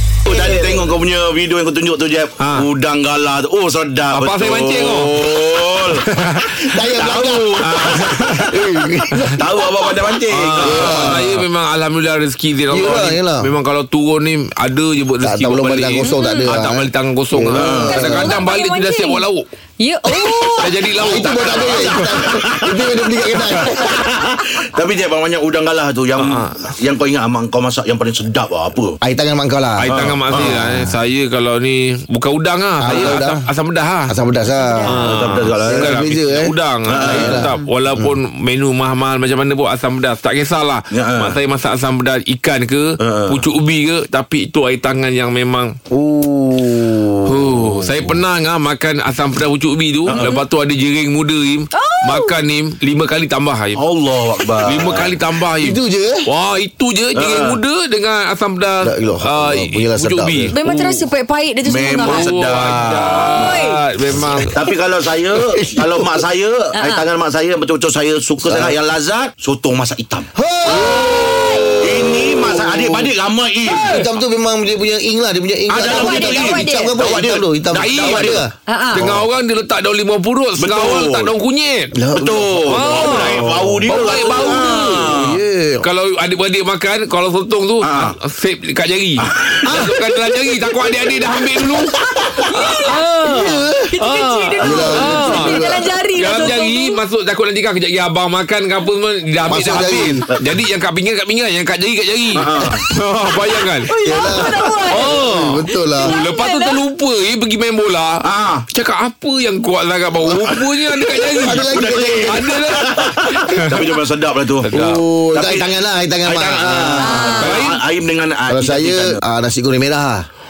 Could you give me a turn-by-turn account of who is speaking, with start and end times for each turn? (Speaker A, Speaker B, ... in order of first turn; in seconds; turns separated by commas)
Speaker A: 0.3-6.0, Speaker B: 0.3-0.8, Speaker C: 2.4-2.7, Speaker C: 4.1-5.3, Speaker C: 6.0-6.6, Speaker B: 6.7-9.5, Speaker A: 6.8-8.4, Speaker C: 7.6-8.6, Speaker A: 9.4-11.3, Speaker C: 10.3-19.4, Speaker B: 10.6-11.4, Speaker B: 12.7-13.5, Speaker B: 15.2-18.4, Speaker D: 16.0-16.5, Speaker A: 17.5-18.0, Speaker D: 17.9-19.2, Speaker D: 19.8-20.7, Speaker C: 20.6-22.3, Speaker B: 21.0-24.0, Speaker A: 21.1-22.8, Speaker A: 23.6-29.0, Speaker C: 26.2-26.6, Speaker B: 29.0-30.9, Speaker C: 29.8-34.1, Speaker A: 29.9-30.5, Speaker B: 32.8-33.4, Speaker B: 34.1-35.1, Speaker D: 34.6-35.0, Speaker C: 34.9-45.8, Speaker A: 35.0-36.0, Speaker B: 35.6-38.1, Speaker A: 36.9-37.5, Speaker A: 40.9-41.4, Speaker A: 43.0-43.4, Speaker B: 45.9-47.7, Speaker C: 47.3-53.8, Speaker A: 50.1-50.3, Speaker D: 51.7-52.4, Speaker A: 53.8-55.1, Speaker C: 54.6-61.1, Speaker B: 55.6-56.3, Speaker A: 57.1-57.6, Speaker B: 58.8-60.5, Speaker D: 60.5-62.3, Speaker A: 61.6-63.6, Speaker C: 62.0-64.6, Speaker D: 63.3-63.8, Speaker A: 64.5-70.3, Speaker B: 65.4-66.2, Speaker D: 66.7-67.0, Speaker B: 68.4-68.7, Speaker B: 70.4-73.1, Speaker D: 70.7-71.7, Speaker A: 71.8-74.0, Speaker B: 73.7-78.5, Speaker A: 75.7-78.5, Speaker D: 75.9-77.0, Speaker C: 77.8-78.4, Speaker D: 78.7-79.0, Speaker C: 78.9-81.9, Speaker A: 80.6-81.3, Speaker B: 82.0-85.9, Speaker A: 82.2-85.4, Speaker C: 82.7-85.1, Speaker C: 85.8-92.0, Speaker A: 87.8-88.2, Speaker A: 89.2-89.8, Speaker B: 89.7-90.9, Speaker D: 92.3-97.0, Speaker C: 92.5-95.7, Speaker B: 93.2-93.9, Speaker B: 94.6-95.8, Speaker C: 96.2-103.9, Speaker B: 99.5-100.2, Speaker A: 99.5-100.4, Speaker A: 102.3-102.8, Speaker D: 103.8-105.2, Speaker B: 104.0-106.2, Speaker C: 104.9-113.9, Speaker D: 106.0-106.8, Speaker A: 108.2-108.7, Speaker A: 110.3-110.6, Speaker A: 111.2-114.7, Speaker B: 111.4-112.9, Speaker C: 114.7-115.0, Speaker B: 114.7-117.4, Speaker A: 115.3-115.7, Speaker A: 116.3-119.2, Speaker D: 117.0-117.6, Speaker C: 117.4-117.8, Speaker B: 118.5-120.3